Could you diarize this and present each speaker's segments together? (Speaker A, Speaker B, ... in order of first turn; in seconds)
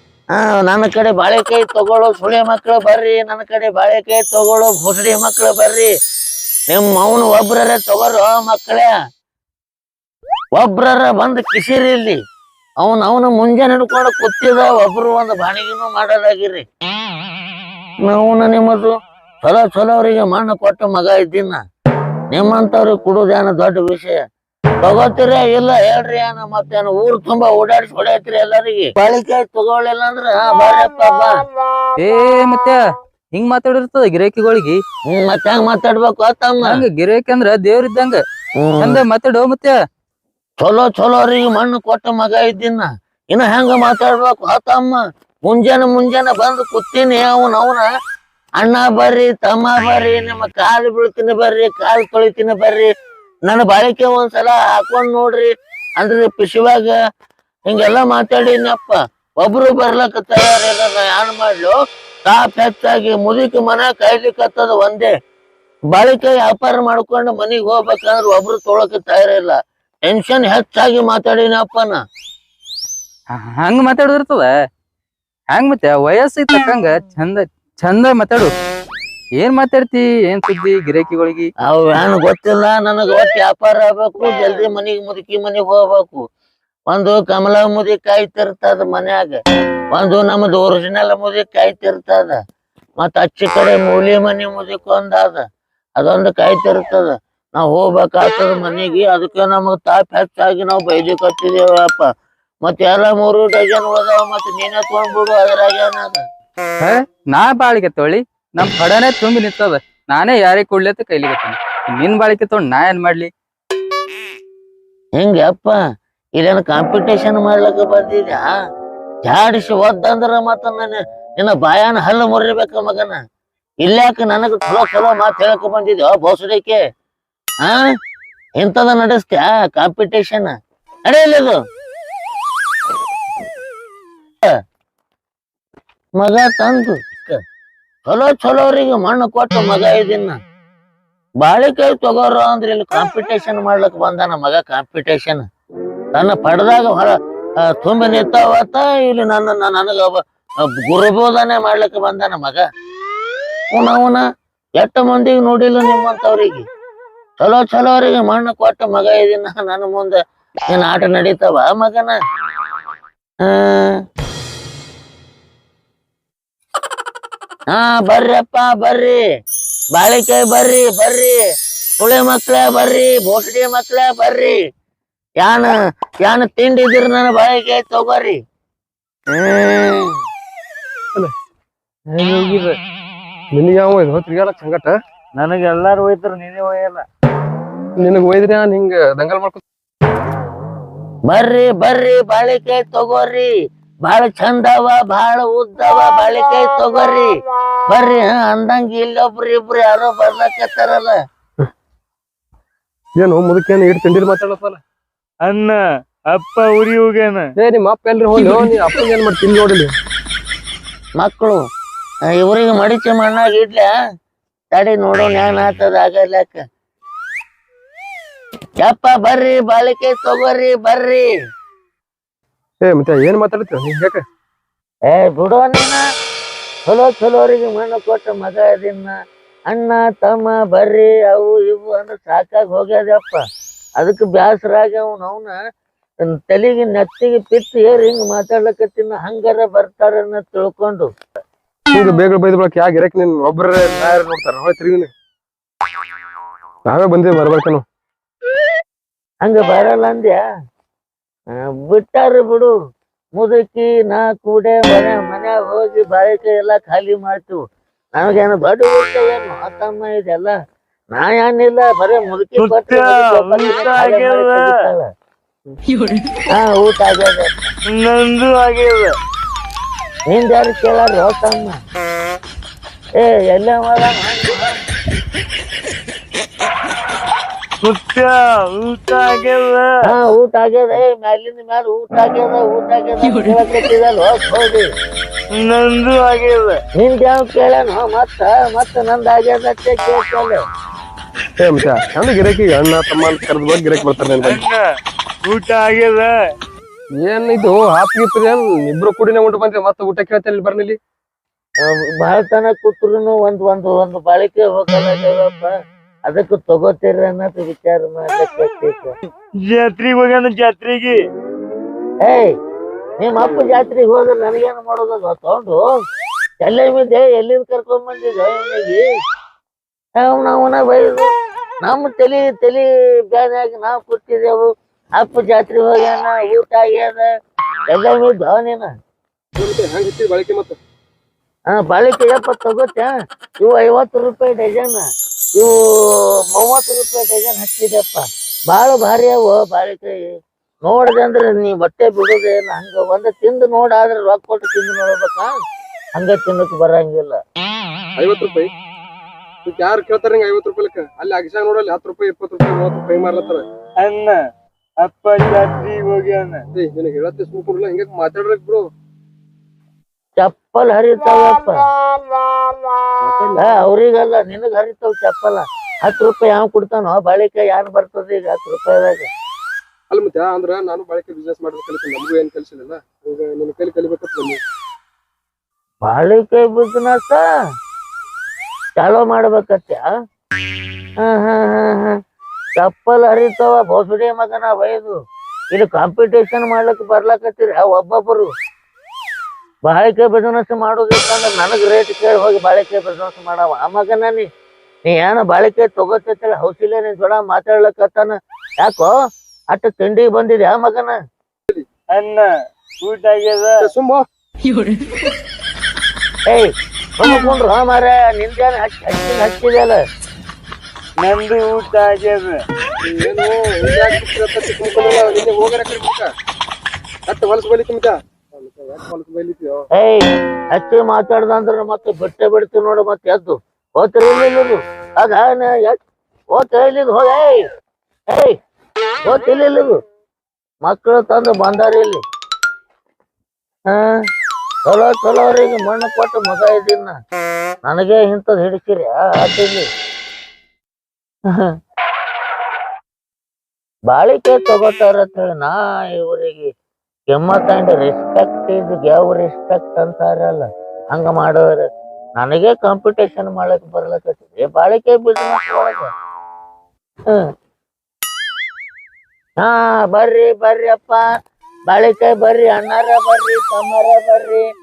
Speaker A: 0.3-5.9, 6.7-8.9, 10.5-12.2, 12.8-16.6, 18.0-21.6, 22.3-24.2, 24.8-31.4, 35.1-36.8, 38.6-39.0, 40.6-47.9, 48.6-52.9, 53.5-56.9, 57.7-65.1, 65.9-69.6, 70.1-72.0, 81.6-86.2, 86.9-89.4, 89.9-92.4, 93.0-95.5, 96.0-102.1, 102.6-106.2, 115.2-115.8, 116.4-118.5, 119.2-123.2, 123.8-126.8, 128.6-130.5, 131.1-131.6, 136.2-137.4, 138.1-140.3, 141.4-145.4, 146.1-147.1, 147.7-150.2, 150.9-152.6, 153.7-154.2, 154.8-156.6, 157.4-160.2, 160.7-162.2, 163.4-164.0, 167.7-169.2, 169.9-171.4, 172.0-174.6, 175.4-178.3, 179.3-180.1, 191.3-193.5, 194.0-197.3, 197.9-201.1, 211.2-211.6, 212.4-213.9, 214.7-216.6, 218.8-221.3, 225.1-226.0, 226.9-229.1, 229.7-233.4, 234.0-235.6, 236.3-241.1, 249.4-250.4, 251.5-252.7, 253.4-257.6, 258.2-260.5, 261.1-265.1, 266.5-267.7, 270.3-271.8, 273.2-274.8, 280.1-284.9, 287.0-290.6, 302.2-305.7, 306.3-309.1, 312.2-312.5, 313.2-315.8, 316.6-319.0, 320.2-321.3, 321.8-324.7, 325.2-327.2, 327.9-328.9, 331.7-335.0, 335.6-340.2, 340.9-345.6, 346.2-347.4, 360.4-361.8, 363.6-369.3, 376.1-377.4, 379.0-380.1, 381.2-382.2, 382.8-385.2, 385.7-388.5, 389.9-394.5, 395.1-399.1, 399.7-401.1, 406.5-410.0, 419.9-426.0, 426.5-427.6, 428.3-428.6, 429.2-429.9, 430.9-432.2, 433.9-434.1, 434.9-437.1, 437.9-439.9, 444.1-446.7, 447.3-451.9, 452.4-456.1, 459.6-461.2, 461.9-464.6
Speaker B: 32.0-32.8, 33.3-34.8, 36.6-38.2, 38.8-39.8, 73.3-74.5, 75.5-78.5, 79.4-81.5, 106.8-113.3, 208.3-208.7
Speaker C: 182.1-182.7, 185.3-187.0, 205.4-205.8, 206.3-207.4, 262.6-264.7, 268.0-269.1, 277.8-279.9, 285.6-286.8, 294.4-294.8, 295.5-296.3, 309.6-311.2, 354.0-354.4, 355.0-356.6, 402.1-402.5, 403.0-403.8, 411.2-412.6
Speaker D: 183.5-184.9, 188.0-189.6, 203.2-204.8, 207.6-209.9, 222.8-224.2, 241.9-245.1, 246.9-247.8, 291.6-294.6, 297.2-301.0, 329.6-330.8, 348.2-348.7, 349.6-353.6, 356.7-358.8, 363.2-363.9, 370.1-374.6, 403.8-404.2, 413.0-416.3, 417.3-419.9